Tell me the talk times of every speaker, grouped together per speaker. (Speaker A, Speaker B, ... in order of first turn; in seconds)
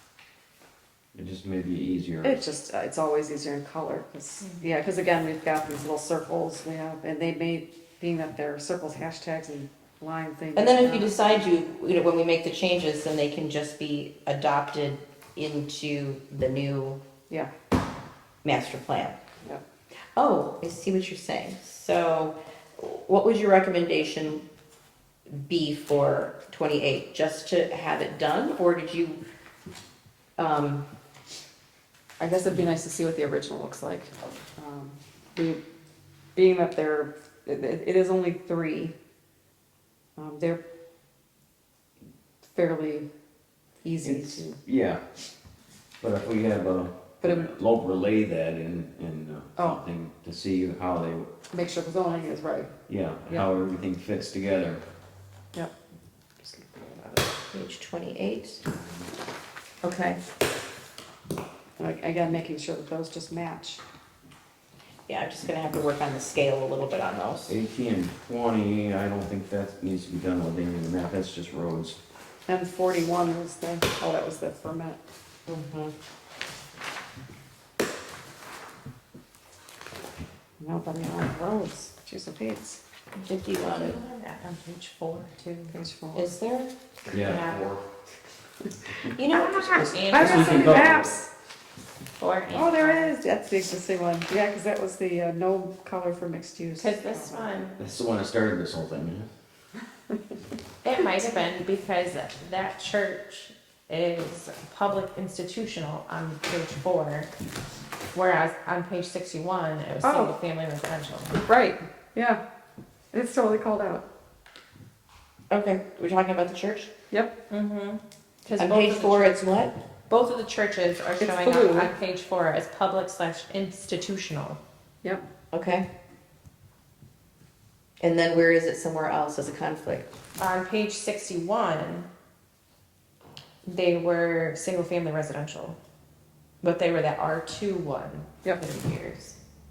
Speaker A: 1.1-2.4, 44.0-45.0, 46.0-51.3, 52.9-54.8, 58.7-59.0, 67.5-72.0, 87.1-87.8, 90.2-91.1, 97.8-99.3
Speaker B: 2.2-11.2, 32.2-35.6, 36.3-38.9, 40.1-40.6, 42.4-43.1, 43.8-44.6, 47.2-47.5, 49.6-49.8, 51.5-52.7, 56.4-57.2, 61.8-63.8, 72.5-75.0, 80.6-82.8, 85.7-86.3, 90.1-91.3, 92.5-97.5, 110.0-110.3, 111.3-112.4, 113.1-114.0, 121.2-121.9
Speaker C: 4.4-4.7, 83.6-85.7, 87.1-87.7, 89.3-91.0, 92.2-93.1, 96.8-97.8, 100.8-107.3, 108.1-111.4, 117.5-119.4, 120.1-124.6, 130.4-132.1, 133.7-135.8, 136.6-139.3
Speaker D: 10.6-17.0, 18.4-19.2, 20.1-24.4, 25.3-29.2, 30.4-30.9, 57.5-58.6, 59.8-60.2, 65.1-67.6, 75.5-75.9, 83.1-84.0, 86.1-86.7, 89.1-90.7, 115.5-116.9, 118.6-119.7, 125.5-125.8, 128.0-130.1